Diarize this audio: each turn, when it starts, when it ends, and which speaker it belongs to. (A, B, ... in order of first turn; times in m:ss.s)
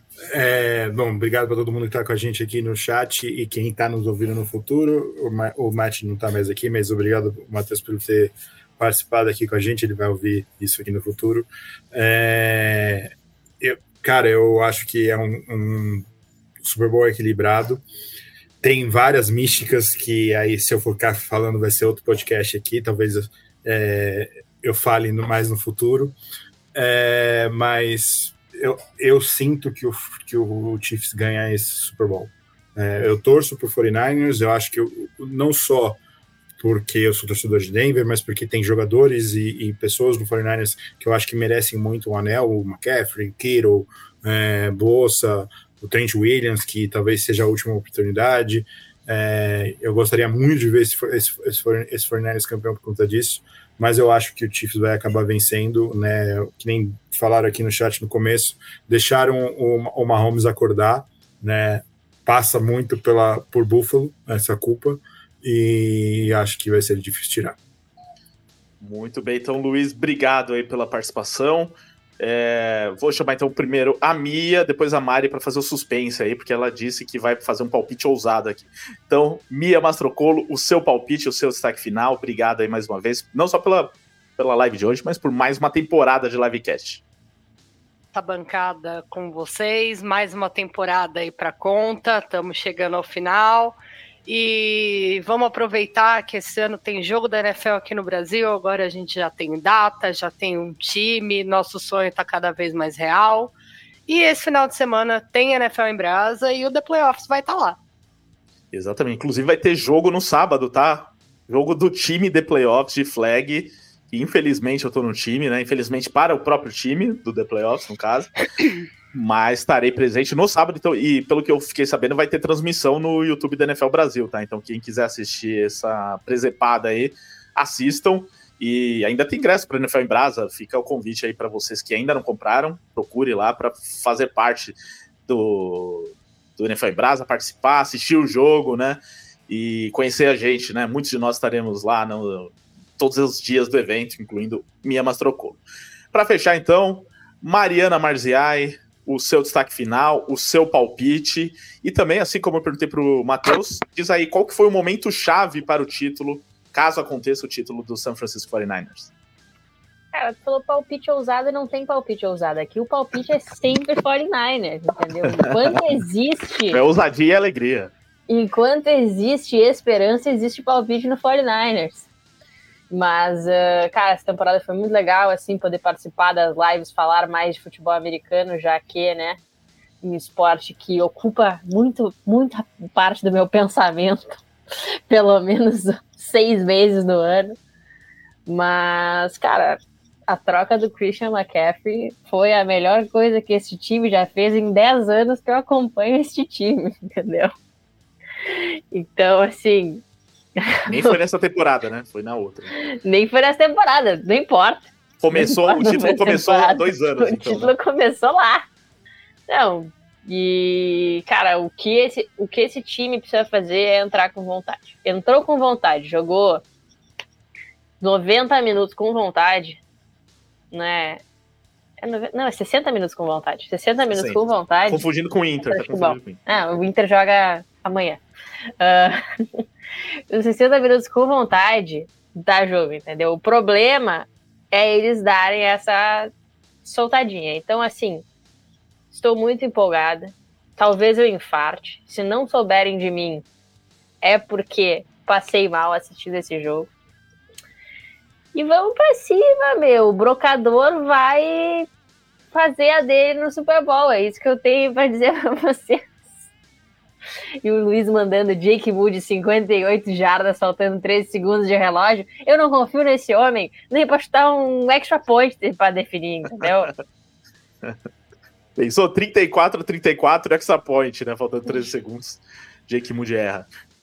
0:00.3-0:16.1 A
0:16.6-0:17.8 A
0:18.6-0:26.2 A
0:26.7-0:36.0 A
0:36.6-1:07.6 A
1:08.8-1:27.0 B
1:28.1-1:43.5 C
1:44.1-1:47.8 C
1:48.7-1:58.4 B
1:59.1-2:14.8 B
2:15.3-2:25.6 B
2:26.1-2:39.1 B
2:40.1-2:46.8 D
2:45.3-2:45.8 B
2:46.7-2:47.9 B
2:48.3-2:52.1 D
2:52.9-2:59.4 D
3:00.0-3:04.4 D
3:05.1-3:07.6 D
3:08.5-3:17.5 D
3:18.5-3:20.0 D
3:20.6-3:21.2 D
3:20.9-3:22.7 B
3:23.0-3:28.6 D
3:25.2-3:27.7 B
3:29.5-3:36.6 D
3:38.0-3:39.8 D
3:40.7-3:41.2 D
3:42.0-3:45.0 D
3:44.1-3:46.4 B
3:45.7-3:48.2 D
3:48.8-3:49.6 D
3:50.3-3:56.3 D
3:56.8-3:58.2 D
3:59.1-4:03.4 D
4:04.2-4:06.9 D
4:08.5-4:11.9 D
4:12.5-4:16.0 D
4:17.6-4:26.9 D
4:26.6-4:26.9 B
4:28.8-4:33.7 B